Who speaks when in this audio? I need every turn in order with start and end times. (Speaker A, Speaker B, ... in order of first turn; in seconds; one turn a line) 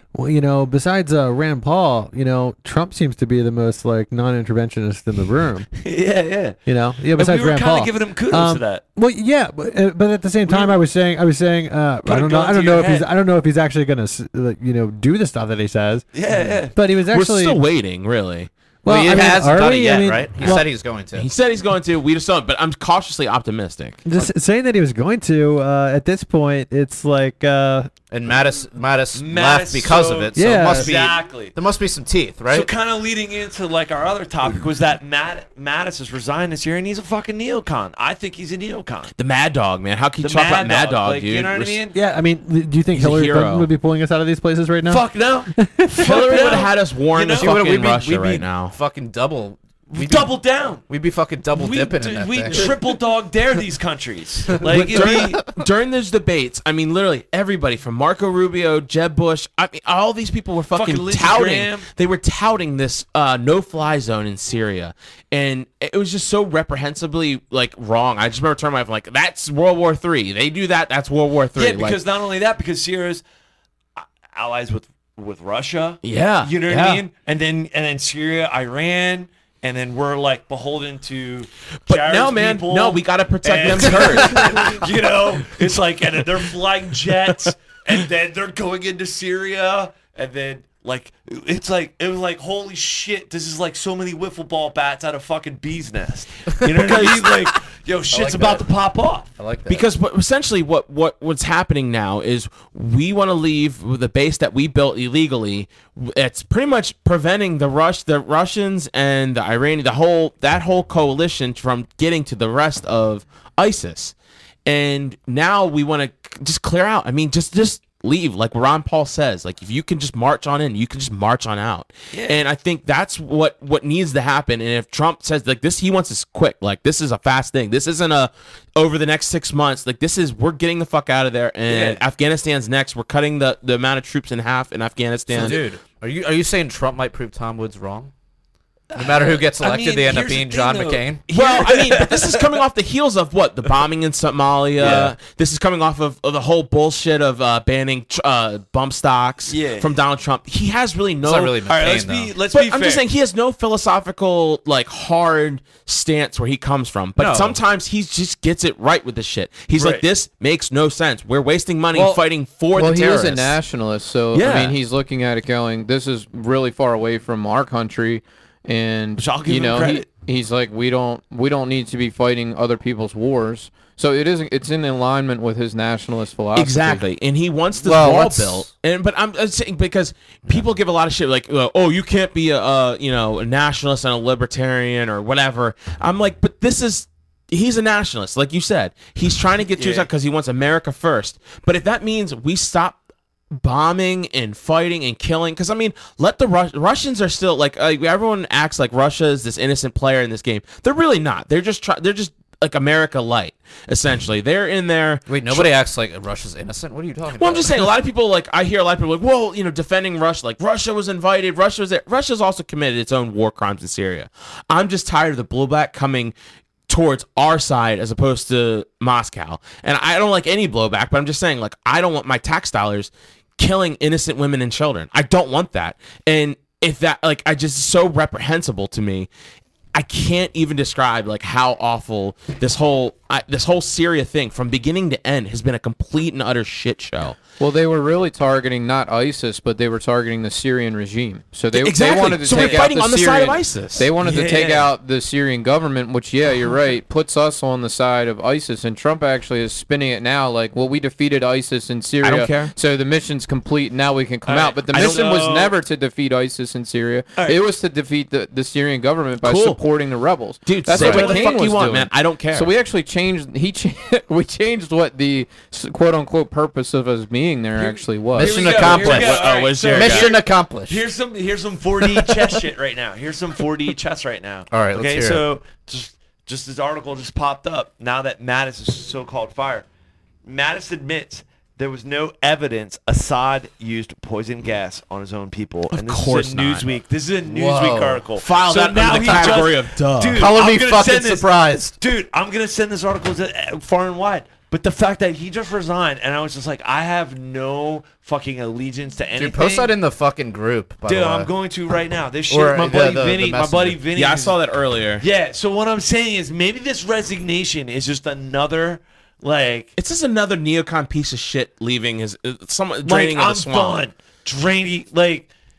Speaker A: 0.1-5.7
Speaker B: 5.8-6.6
Speaker A: 6.7-17.6
Speaker B: 7.1-8.8
Speaker B: 10.5-10.8
Speaker B: 12.1-13.1
Speaker B: 16.1-16.7
Speaker C: 17.1-18.5
Speaker A: 18.8-20.6
Speaker D: 18.9-21.3
Speaker C: 21.1-24.0
Speaker A: 24.0-27.9
Speaker D: 28.1-32.7
Speaker B: 29.1-31.5
Speaker A: 30.3-30.9
Speaker B: 32.5-39.1
Speaker C: 39.2-41.8
Speaker B: 40.2-42.0
Speaker A: 41.9-46.3
Speaker C: 42.9-43.7
Speaker B: 44.8-47.6
Speaker C: 46.0-48.7
Speaker D: 47.4-50.4
Speaker B: 49.9-50.8
Speaker D: 50.9-52.7
Speaker B: 51.5-55.4
Speaker C: 54.7-72.0
Speaker D: 54.9-55.2
Speaker B: 60.7-61.9
Speaker B: 71.5-73.2
Speaker B: 74.0-99.3
Speaker C: 76.0-77.0
Speaker C: 81.9-84.8
Speaker C: 96.7-97.3
Speaker D: 98.1-98.7
Speaker D: 99.4-99.8
Speaker C: 99.7-114.1
Speaker C: 114.7-135.6
Speaker B: 122.1-122.4
Speaker B: 131.7-132.0
Speaker D: 135.3-138.1
Speaker B: 135.3-135.6
Speaker B: 138.9-142.6
Speaker D: 138.9-141.2
Speaker C: 141.3-151.6
Speaker D: 144.8-145.2
Speaker B: 144.8-145.1
Speaker B: 149.5-150.0
Speaker D: 151.2-152.3
Speaker B: 151.7-153.0
Speaker C: 152.5-163.4
Speaker D: 157.2-157.6
Speaker B: 159.7-160.0
Speaker D: 161.9-163.6
Speaker E: 162.8-177.0
Speaker B: 164.3-164.8
Speaker B: 169.2-170.1
Speaker C: 176.6-193.0
Speaker D: 177.8-178.7
Speaker B: 189.8-190.1
Speaker C: 193.5-205.7
Speaker D: 205.3-207.9
Speaker C: 207.4-216.3
Speaker C: 216.9-229.3
Speaker C: 229.9-237.4
Speaker E: 237.6-268.6
Speaker C: 241.7-244.1
Speaker B: 242.5-242.9
Speaker B: 244.2-244.9
Speaker C: 252.2-252.7
Speaker B: 254.4-255.8
Speaker C: 254.9-255.2
Speaker C: 259.4-259.8
Speaker C: 260.6-262.7
Speaker B: 260.9-261.6
Speaker B: 267.8-279.9
Speaker D: 268.3-271.0
Speaker C: 268.6-270.3
Speaker D: 274.7-275.4
Speaker B: 280.4-291.5
Speaker C: 285.9-286.9
Speaker D: 287.4-288.2
Speaker C: 288.4-290.4
Speaker D: 289.1-289.6
Speaker D: 290.3-291.9
Speaker B: 292.0-299.9
Speaker D: 299.4-301.5
Speaker B: 301.1-304.6
Speaker D: 302.5-304.0
Speaker C: 304.1-305.2
Speaker B: 305.2-309.9
Speaker C: 310.0-314.0
Speaker B: 313.0-315.5